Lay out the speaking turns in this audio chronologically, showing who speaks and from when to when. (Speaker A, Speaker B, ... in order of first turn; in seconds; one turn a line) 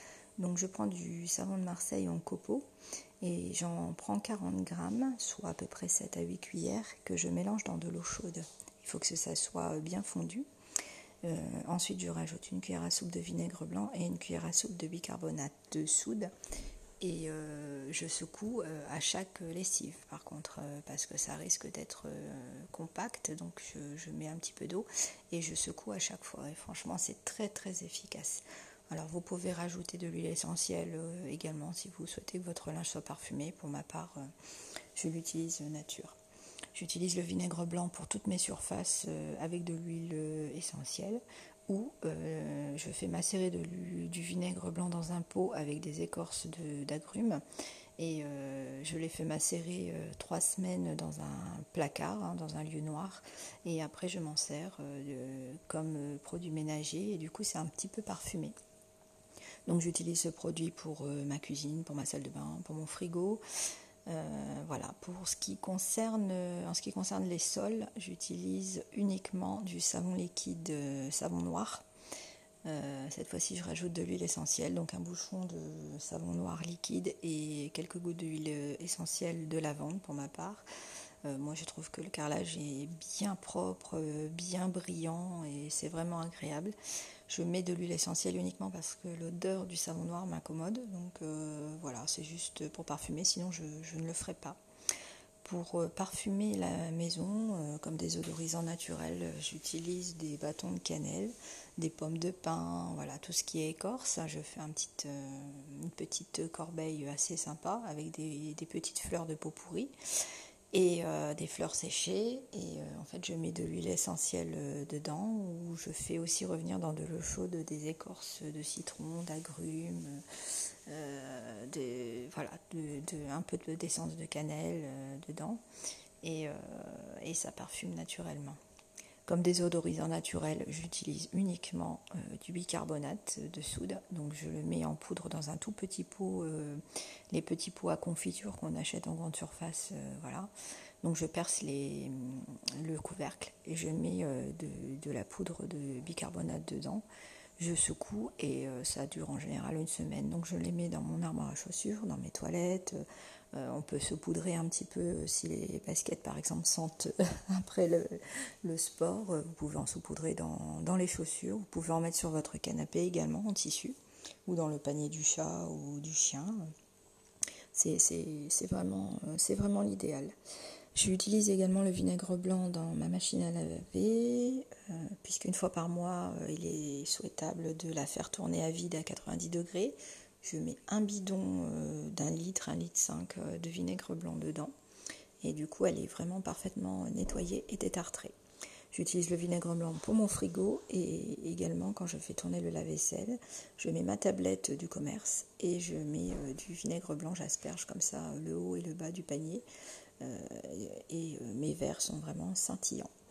Speaker A: 0.4-2.6
Speaker A: 3.2-10.5
Speaker A: 11.2-16.3
Speaker A: 17.0-34.3
Speaker A: 35.0-36.2
Speaker A: 36.7-47.4
Speaker A: 48.0-58.5
Speaker A: 59.6-63.4
Speaker A: 64.1-71.8
Speaker A: 72.6-80.6
Speaker A: 81.2-86.7
Speaker A: 87.3-94.6
Speaker A: 95.4-109.9
Speaker A: 110.7-120.2
Speaker A: 120.9-125.6
Speaker A: 126.2-128.6
Speaker A: 129.2-140.5
Speaker A: 141.0-147.0
Speaker A: 147.6-166.6
Speaker A: 167.7-170.3
Speaker A: 170.9-184.7
Speaker A: 185.4-188.3
Speaker A: 188.9-199.6
Speaker A: 200.2-203.1